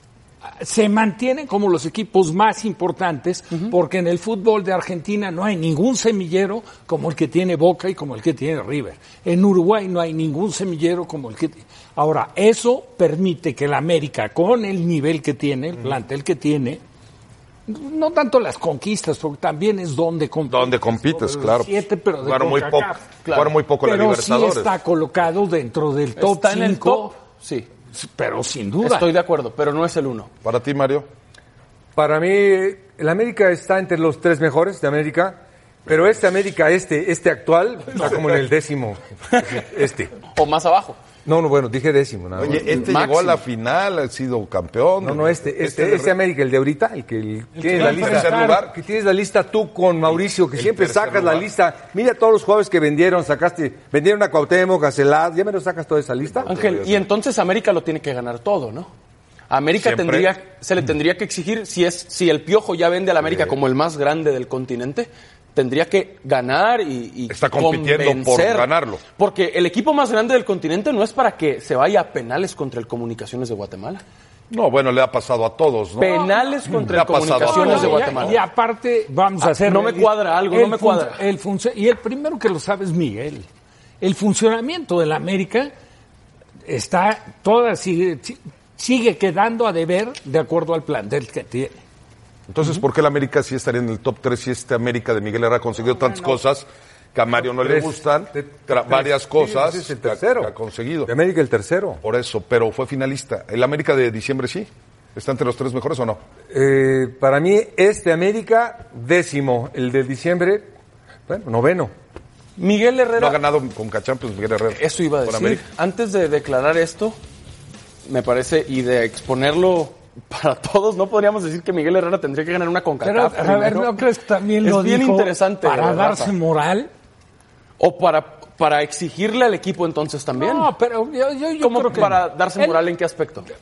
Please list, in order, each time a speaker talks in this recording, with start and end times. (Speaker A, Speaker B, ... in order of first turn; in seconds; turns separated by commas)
Speaker A: 0.5-16.8, Speaker A: 17.7-23.0, Speaker B: 20.5-24.7, Speaker C: 23.2-23.5, Speaker A: 23.8-27.1, Speaker C: 26.2-27.7, Speaker A: 27.9-29.1, Speaker C: 28.8-30.3, Speaker B: 30.4-31.1, Speaker D: 31.9-40.1, Speaker C: 40.3-41.0, Speaker D: 41.2-42.8, Speaker B: 42.4-46.2, Speaker C: 42.5-43.4, Speaker D: 45.0-56.5, Speaker A: 47.6-48.6, Speaker B: 47.6-48.8, Speaker B: 50.1-51.5, Speaker B: 56.4-57.1, Speaker C: 56.5-58.9, Speaker C: 59.5-74.0, Speaker B: 59.8-60.3, Speaker B: 63.2-63.5, Speaker B: 67.3-69.0, Speaker B: 74.5-76.1, Speaker C: 76.0-78.4, Speaker A: 76.0-76.4, Speaker B: 76.9-78.4, Speaker A: 77.4-83.5, Speaker C: 79.4-81.2, Speaker A: 84.0-85.7, Speaker A: 86.7-91.8, Speaker B: 92.5-101.1, Speaker D: 97.4-100.5, Speaker D: 101.0-102.0, Speaker B: 102.0-106.2, Speaker D: 106.5-110.7, Speaker D: 111.3-111.9, Speaker C: 112.6-113.4, Speaker B: 113.2-115.6, Speaker C: 114.7-117.2, Speaker C: 118.1-124.0, Speaker A: 123.0-126.9, Speaker C: 124.6-126.3, Speaker C: 127.8-130.7, Speaker A: 130.4-132.8, Speaker C: 131.6-133.5